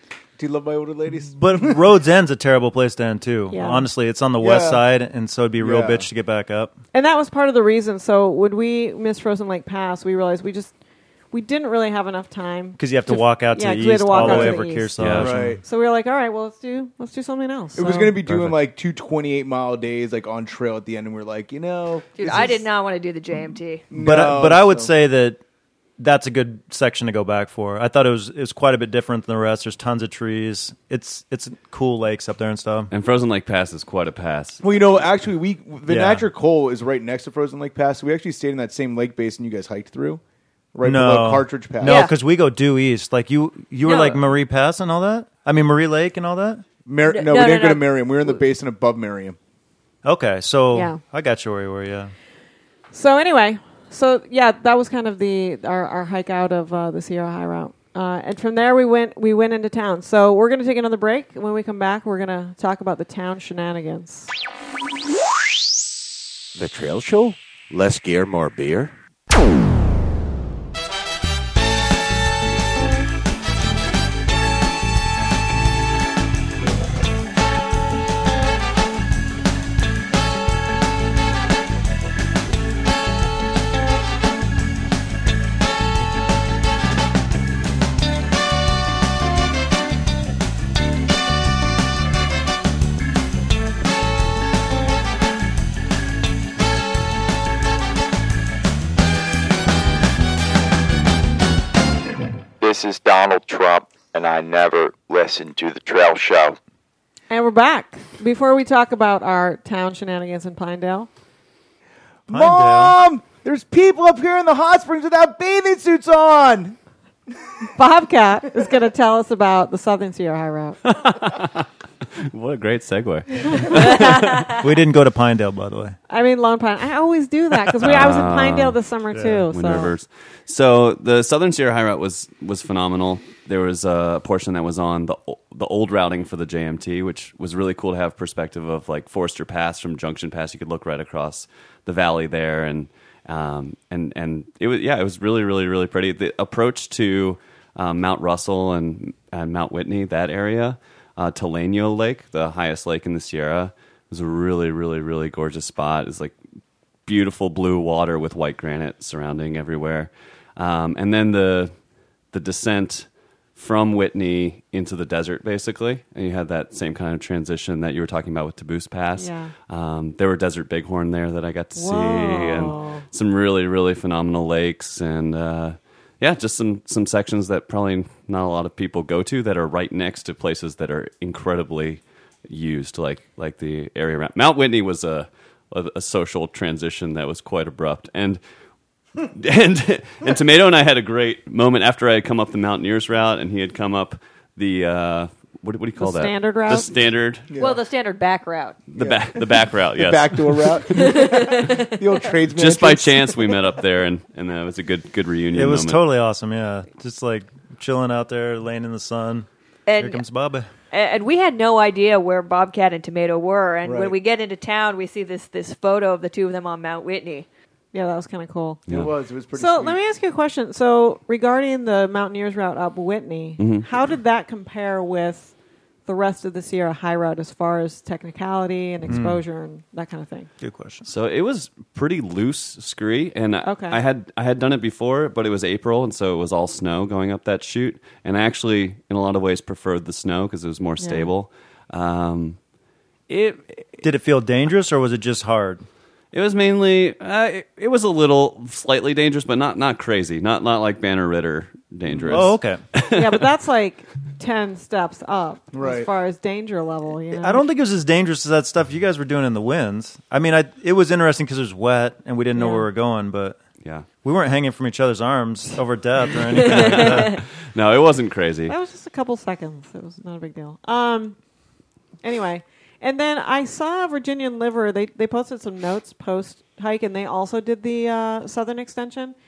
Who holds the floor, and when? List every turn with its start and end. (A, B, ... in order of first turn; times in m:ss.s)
0:00.4-0:01.8 A
0:01.3-0:06.7 B
0:03.5-0:03.9 C
0:04.4-0:04.8 A
0:05.6-0:06.0 A
0:06.9-0:10.7 C
0:11.3-0:14.9 C
0:12.8-0:15.6 B
0:14.1-0:14.6 A
0:15.0-0:15.3 D
0:15.2-0:15.6 A
0:15.6-0:18.2 C
0:17.8-0:22.6 A
0:18.3-0:18.6 D
0:22.2-0:23.9 E
0:23.9-0:24.9 A
0:23.9-0:25.4 B
0:26.0-0:32.9 B
0:32.9-0:34.6 D
0:34.6-0:40.2 A
0:35.9-0:36.3 B
0:40.7-0:42.1 A
0:40.8-0:46.6 B
0:41.9-0:42.1 E
0:43.8-0:44.2 E
0:46.8-0:49.4 A
0:47.1-0:48.4 E
0:50.0-0:52.1 B
0:50.7-0:51.0 C
0:52.9-1:04.3 C
1:06.6-1:08.9 F
1:42.6-1:46.6 G
1:47.3-1:51.1 C
1:52.3-1:56.8 A
1:52.3-1:53.0 B
1:57.8-2:00.8 C
2:02.2-2:04.5 D
2:04.6-2:06.0 B
2:06.1-2:09.9 C
2:07.8-2:08.8 D
2:09.1-2:09.5 B
2:09.5-2:36.4 D
2:37.1-2:41.7 D
2:42.3-3:08.4 D
2:49.2-2:49.5 C
2:51.8-2:53.0 C
3:09.2-3:17.5 D
3:16.0-3:16.9 C
3:17.5-3:17.8 A
3:17.6-3:18.8 E
3:18.9-3:20.8 D
3:19.0-3:23.5 A
3:20.9-3:22.0 E
3:22.6-3:26.0 D
3:25.5-3:29.5 B
3:29.9-3:30.3 E
3:30.0-3:30.7 B
3:30.9-3:37.5 E
3:33.8-3:34.2 A
3:37.9-3:38.8 C
3:38.9-3:40.0 A
3:39.5-3:45.5 C
3:43.6-3:43.9 D
3:46.1-3:50.5 C
3:49.1-3:49.4 B
3:50.6-3:51.1 B
3:51.1-4:02.6 D
3:53.6-3:54.0 C
4:01.0-4:01.3 C
4:03.3-4:03.9 D
4:04.0-4:05.8 B
4:06.3-4:13.4 D
4:12.1-4:12.5 A
4:12.3-4:12.8 B
4:13.1-4:17.7 C
4:15.7-4:16.1 A
4:17.3-4:23.6 B
4:22.6-4:22.9 C
4:24.2-4:27.4 B
4:26.6-4:28.7 D
4:28.7-4:31.4 C
4:32.2-4:39.4 C